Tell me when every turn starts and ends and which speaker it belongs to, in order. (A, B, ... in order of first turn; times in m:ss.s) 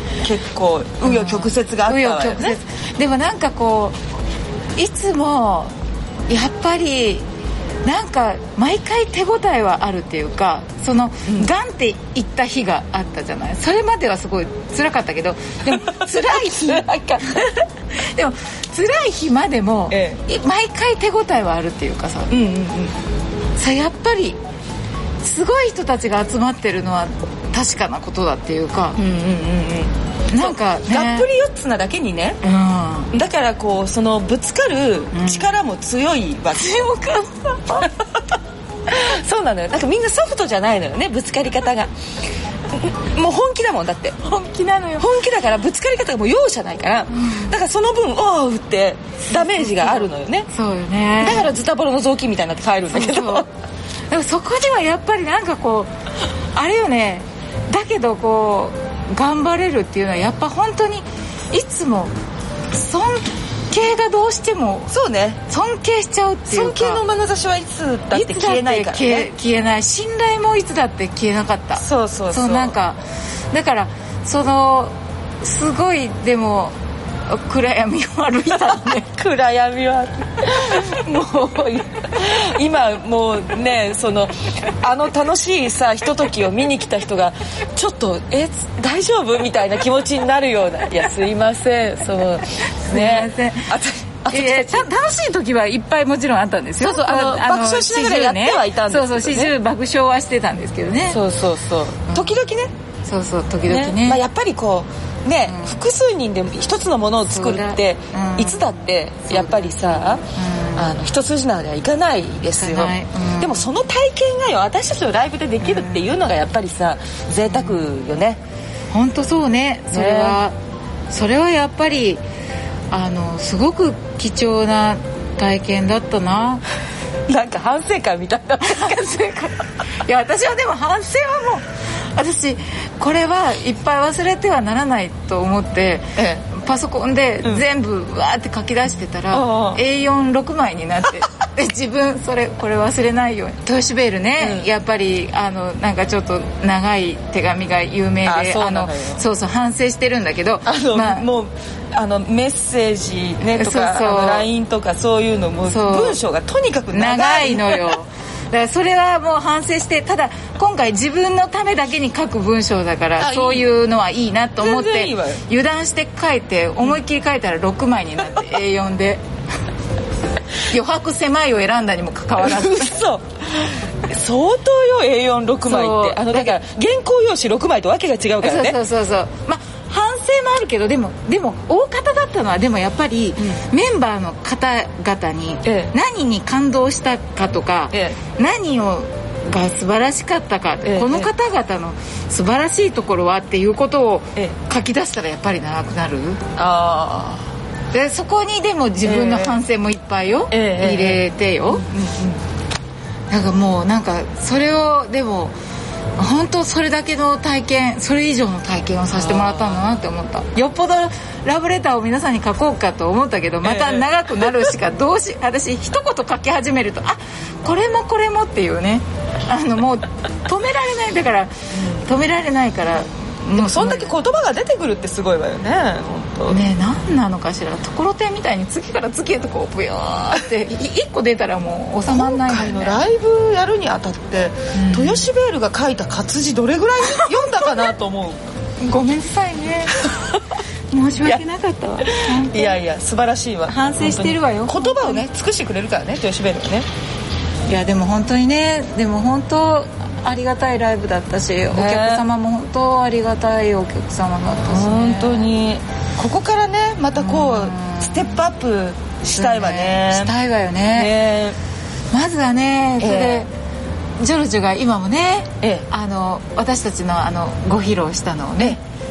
0:00.2-0:02.6 A
0:01.0-0:04.0 B
0:04.8-0:05.7 B
0:06.3-0:07.2 B
0:07.8-0:22.3 B
0:11.3-0:11.5 A
0:15.6-0:17.5 A
0:19.9-0:20.2 A
0:22.3-0:22.9 A
0:23.6-0:24.4 B
0:25.2-0:29.0 B
0:29.0-0:32.4 A
0:30.3-0:31.3 B
0:32.4-0:33.1 B
0:33.1-0:36.9 A
0:35.1-0:35.5 B
0:36.5-0:37.9 B
0:38.9-0:41.9 A
0:42.7-0:44.2 A
0:44.2-0:45.1 B
0:45.0-0:50.5 A
0:47.1-0:47.5 B
0:49.3-0:51.5 B
0:51.2-0:53.5 A
0:52.9-0:53.5 B
0:54.1-0:55.9 B
0:56.5-1:02.1 B
1:02.7-1:04.9 B
1:04.9-1:05.4 A
1:05.5-1:07.0 B
1:06.5-1:09.3 A
1:08.1-1:13.0 B
1:11.8-1:12.8 A
1:13.5-1:16.7 B
1:17.3-1:19.2 B
1:19.1-1:21.1 A
1:20.5-1:22.0 B
1:22.1-1:34.9 A
1:32.8-1:33.7 B
1:34.3-1:41.2 B
1:36.8-1:39.5 A
1:41.1-1:42.7 A
1:42.1-1:42.4 B
1:43.1-1:44.2 B
1:43.7-1:50.2 A
1:45.5-1:45.8 B
1:47.3-1:50.9 B
1:50.8-1:58.4 A
1:52.5-1:53.7 B
1:55.6-1:56.0 B
1:57.5-1:57.8 B
1:58.9-2:00.6 B
1:59.9-2:00.4 A
2:01.1-2:02.2 B
2:02.9-2:06.6 B
2:07.3-2:09.2 A
2:08.6-2:31.3 B
2:16.2-2:16.4 A
2:19.3-2:19.8 A
2:24.4-2:24.7 A
2:28.2-2:29.2 A
2:30.7-2:38.0 A
2:33.4-2:34.5 B
2:35.7-2:36.2 B
2:36.9-2:49.2 B
2:43.2-2:43.6 A
2:44.6-2:45.4 A
2:50.6-2:53.0 B
2:52.4-2:58.8 A
2:55.6-2:56.6 B
2:58.4-3:16.4 B
3:05.6-3:06.0 A
3:07.9-3:08.2 A
3:10.8-3:11.3 A
3:16.6-3:17.5 A
3:17.9-3:21.9 B
3:19.0-3:19.6 A
3:20.5-3:22.4 A
3:23.3-3:25.6 B
3:26.2-3:44.2 B
3:29.1-3:29.9 A
3:33.6-3:34.5 A
3:43.6-3:46.6 A
3:46.5-3:53.0 B
3:52.1-3:58.4 A
3:54.7-3:55.3 B
3:57.1-3:57.7 B
3:58.8-4:00.1 B
4:00.9-4:02.8 B
4:02.0-4:06.9 A
4:03.7-4:05.2 B
4:07.7-4:15.5 B
4:11.7-4:12.3 A
4:14.7-4:20.3 A
4:17.2-4:18.5 B
4:19.3-4:21.1 B
4:20.9-4:21.6 A
4:22.1-4:23.5 B
4:23.0-4:23.5 A
4:24.2-4:28.8 B